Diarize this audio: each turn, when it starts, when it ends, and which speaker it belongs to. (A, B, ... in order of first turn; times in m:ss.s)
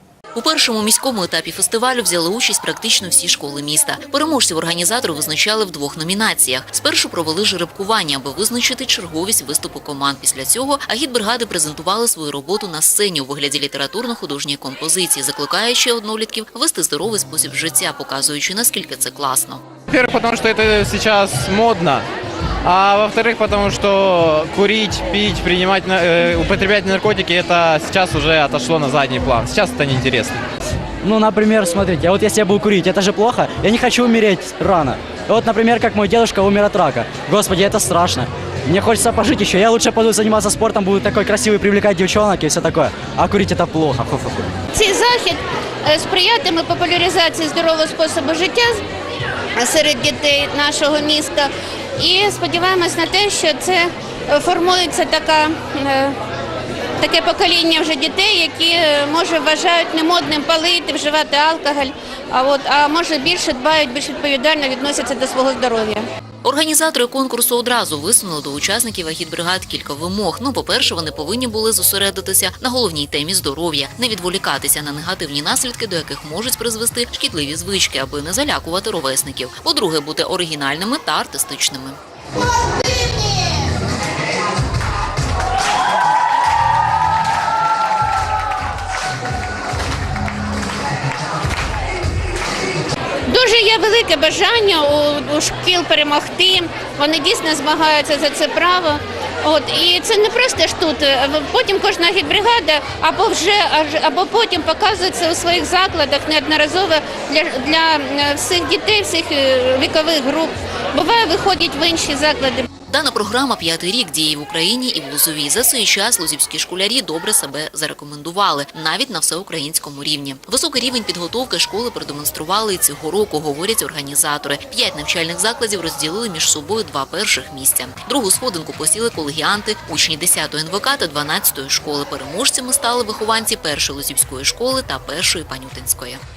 0:00.3-0:19.6 A
0:19.9-0:22.0 B
0:22.6-0:30.4 B
0:31.0-0:44.5 C
0:44.7-0:48.8 D
0:49.6-0:56.2 D
0:57.0-1:06.0 D
1:06.4-1:22.0 A
1:33.3-1:52.7 D
1:52.9-2:16.2 A